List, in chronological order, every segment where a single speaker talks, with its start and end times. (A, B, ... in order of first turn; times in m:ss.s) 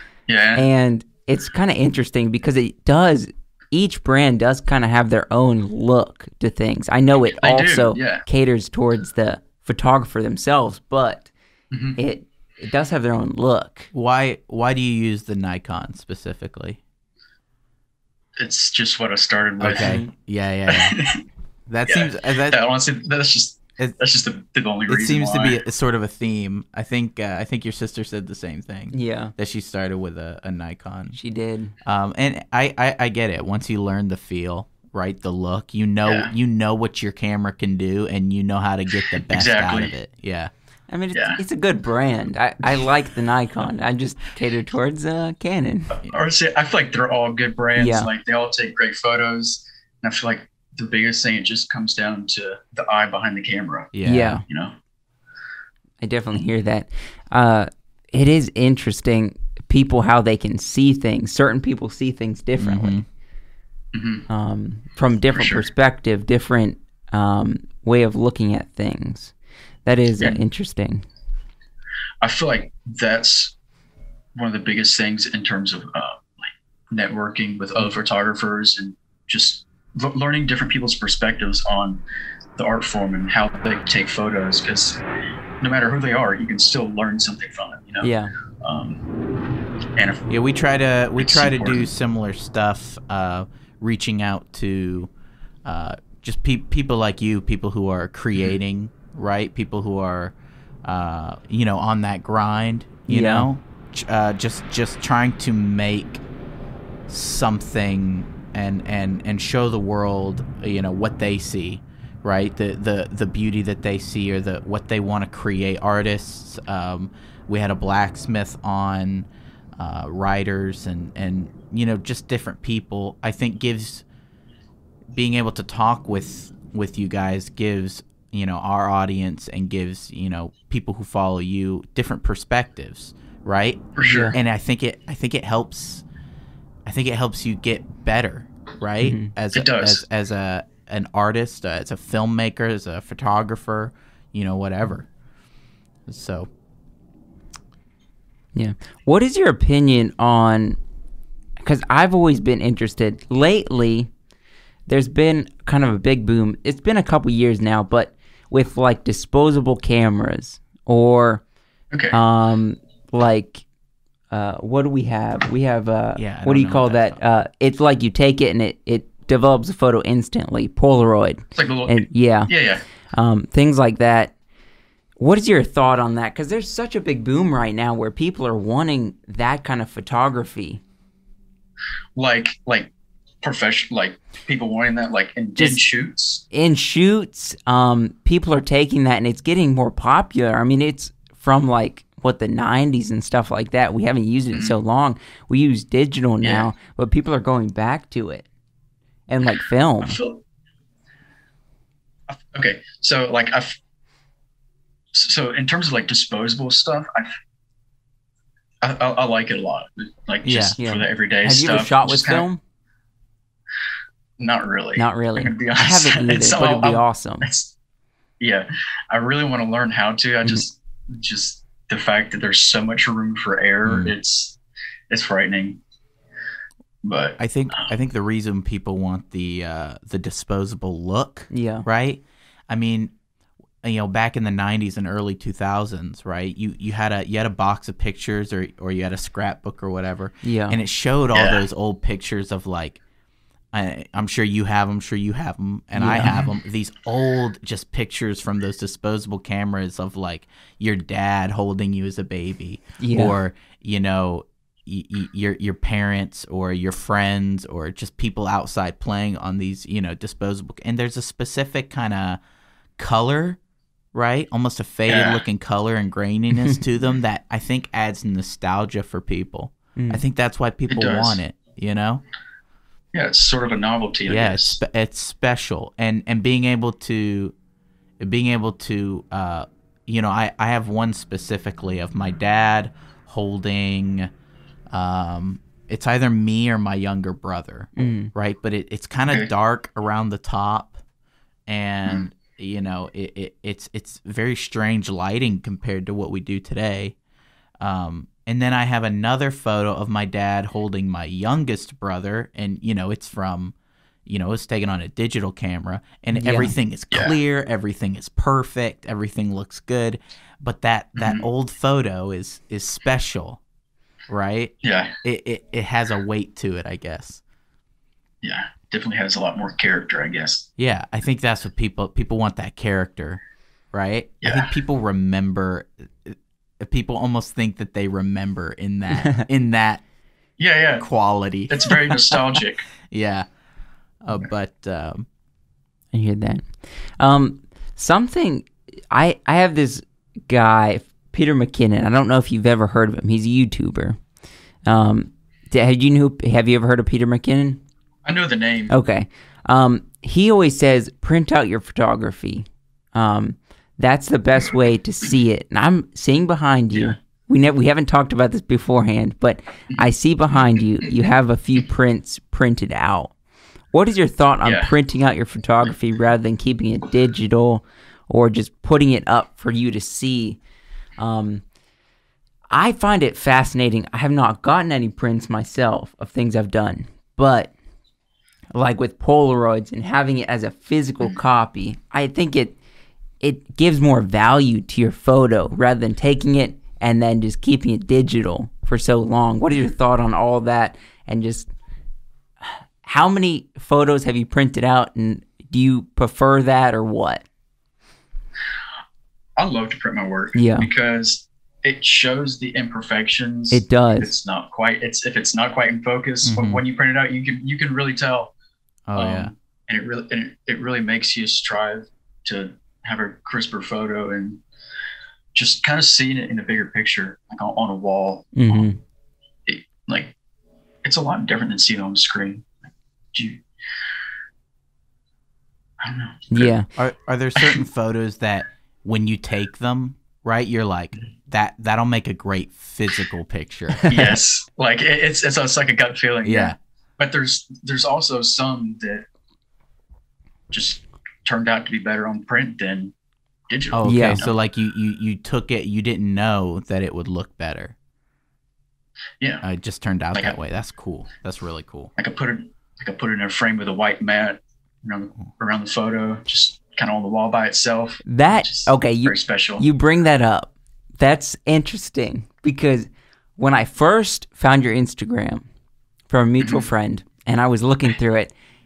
0:00.3-0:00.6 A
0:00.5-0:11.3 B
0:07.4-0:08.2 A
0:11.7-0:12.0 A
0:12.0-0:13.9 B
0:13.9-0:16.8 C
0:18.4-0:20.0 A
0:19.6-0:21.0 C
0:19.8-0:20.1 B
0:20.7-0:21.2 A
0:21.7-0:22.6 C
0:21.8-0:25.6 A
0:24.9-0:31.2 C
0:28.9-0:29.3 B
0:31.1-0:31.7 B
0:31.8-0:40.5 C
0:36.0-0:36.3 A
0:39.3-0:39.9 A
0:40.9-0:45.9 B
0:41.1-0:41.4 A
0:45.9-0:53.9 A
0:47.8-0:48.1 B
0:53.9-0:54.4 C
0:54.0-0:54.4 B
0:54.4-0:54.7 A
0:56.0-1:03.0 B
1:02.6-1:03.0 C
1:03.9-1:04.2 A
1:04.3-1:09.3 B
1:05.3-1:05.7 A
1:09.8-1:11.0 B
1:12.2-1:13.5 A
1:14.3-1:22.0 A
1:22.6-1:25.0 A
1:25.6-1:29.0 A
1:28.0-1:28.3 B
1:30.0-1:30.3 A
1:30.3-1:35.1 C
1:31.2-1:31.9 A
1:35.6-1:46.2 C
1:43.1-1:43.5 B
1:47.1-2:04.0 C
2:05.1-2:16.0 C
2:14.0-2:14.4 A
2:14.0-2:14.4 B
2:16.8-2:25.1 C
2:19.0-2:19.3 B
2:19.5-2:20.0 A
2:26.1-2:26.5 C
2:28.5-2:30.8 B
2:31.6-2:34.1 B
2:34.9-2:41.4 B
2:41.9-2:42.2 A
2:42.1-2:43.6 B
2:44.3-2:52.5 B
2:46.2-2:47.2 C
2:51.6-2:52.8 A
2:53.1-2:54.3 B
2:55.2-3:00.8 B
3:02.2-3:02.9 A
3:03.4-3:06.4 A
3:05.6-3:05.8 B
3:06.5-3:18.5 B
3:16.4-3:16.7 A
3:19.3-3:20.2 B
3:20.0-3:20.4 A
3:22.3-3:23.7 A
3:25.1-3:27.3 A
3:28.8-3:32.4 A
3:30.4-3:30.8 C
3:30.8-3:32.6 B
3:34.4-3:37.7 A
3:35.0-3:37.5 B
3:38.4-3:44.6 A
3:43.8-3:44.1 C
3:45.1-3:45.8 A
3:47.0-3:47.9 A
3:47.4-3:53.1 C
3:51.5-3:51.8 B
3:53.8-4:03.0 C
4:00.4-4:00.8 B
4:01.3-4:01.6 A
4:03.7-4:22.4 C
4:05.9-4:06.3 B
4:06.2-4:06.5 A
4:13.0-4:13.4 B
4:23.0-4:23.6 C
4:24.1-4:32.2 C
4:25.1-4:25.4 A
4:26.5-4:26.8 B
4:30.0-4:30.2 B
4:30.9-4:31.4 A
4:33.1-4:34.8 A
4:34.3-4:37.5 C
4:38.2-4:44.3 C
4:44.9-4:51.0 C
4:48.0-4:48.3 B
4:51.7-4:57.2 C
4:57.8-5:03.7 C
5:04.2-5:13.6 C
5:06.3-5:06.7 B
5:07.1-5:07.4 A
5:11.2-5:11.4 A
5:14.3-5:17.4 C
5:14.8-5:15.1 A
5:18.4-5:20.6 A
5:20.8-5:23.4 C
5:23.9-5:30.0 C
5:24.4-5:24.7 A
5:30.6-5:31.1 A
5:31.0-5:32.1 C
5:31.7-5:32.8 A
5:33.1-5:33.4 C
5:34.2-5:35.3 C
5:36.1-5:44.2 B
5:44.8-5:47.8 B
5:48.2-5:48.9 A
5:48.9-6:03.3 B
6:03.9-6:10.6 B
6:04.6-6:04.9 A
6:11.2-6:11.6 B
6:12.7-6:17.7 B
6:18.7-6:22.7 B
6:23.4-6:31.7 B
6:32.6-6:37.4 B
6:39.6-6:48.5 A
6:40.5-6:40.9 B
6:43.7-6:44.3 B
6:46.4-6:46.8 C
6:49.1-6:49.5 C
6:49.2-6:54.6 A
6:55.5-6:58.9 A
6:58.5-6:59.0 B
6:59.7-7:00.3 A
7:01.0-7:02.7 A
7:03.3-7:03.6 A
7:06.0-7:06.7 A
7:06.5-7:06.9 B
7:07.0-7:14.1 C
7:14.0-7:14.3 B
7:14.1-7:19.2 A
7:16.4-7:16.8 C
7:20.7-7:23.1 A
7:23.7-7:24.5 A
7:23.9-7:27.9 C
7:24.0-7:24.4 B
7:29.6-7:32.1 C
7:32.2-7:39.8 A
7:38.3-7:45.6 B
7:46.3-7:48.5 B
7:46.6-7:46.9 A